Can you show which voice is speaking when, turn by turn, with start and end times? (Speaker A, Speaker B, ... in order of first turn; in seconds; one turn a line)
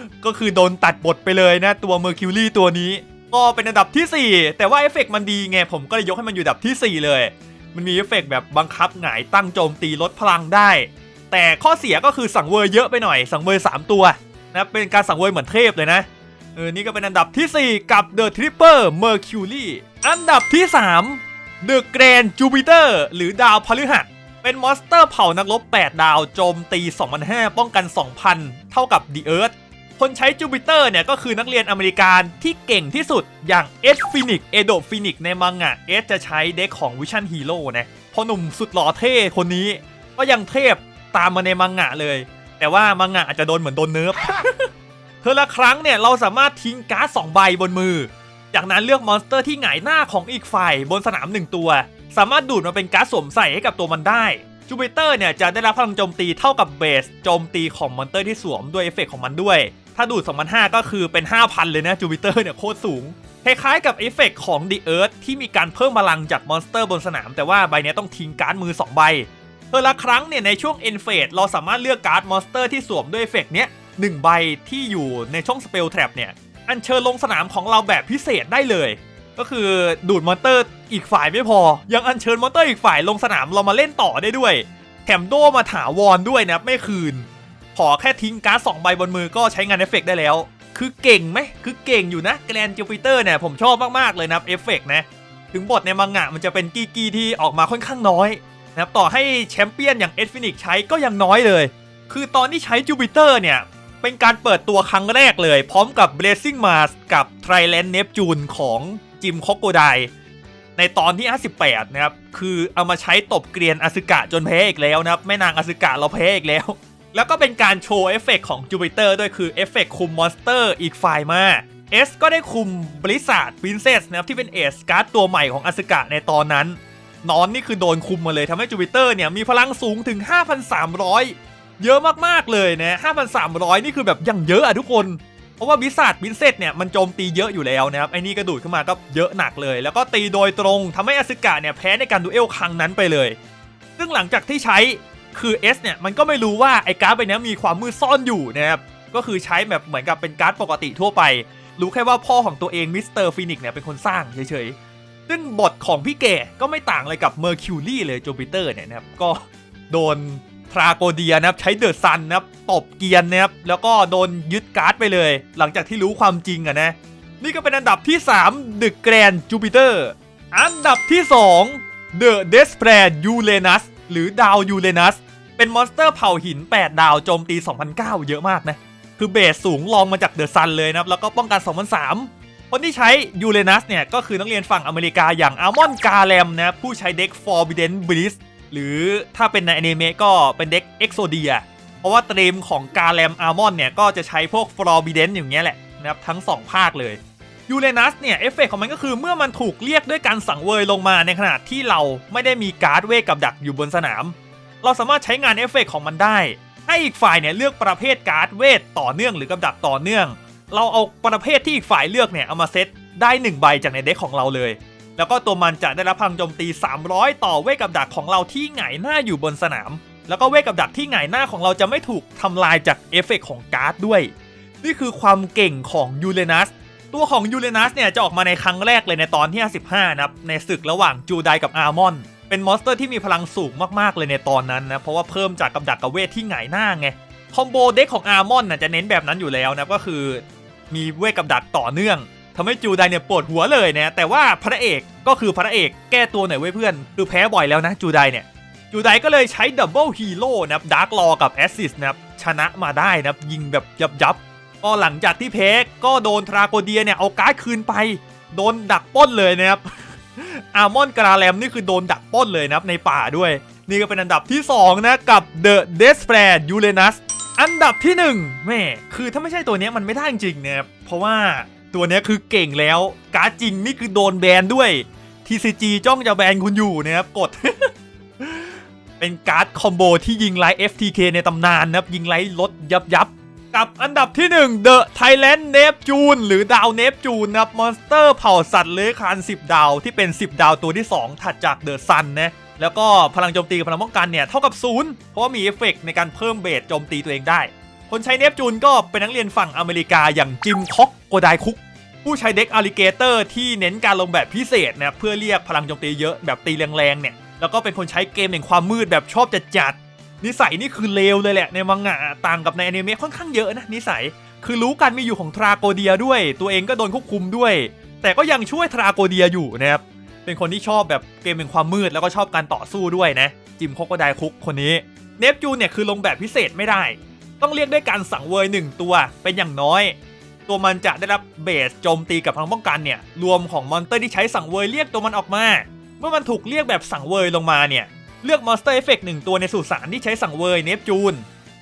Speaker A: 0.2-44.7
Speaker A: 45.2-110.1
Speaker A: 110.8-143.4
Speaker A: 144.0-154.8
Speaker A: 155.3-224.3
Speaker A: 224.8-341.5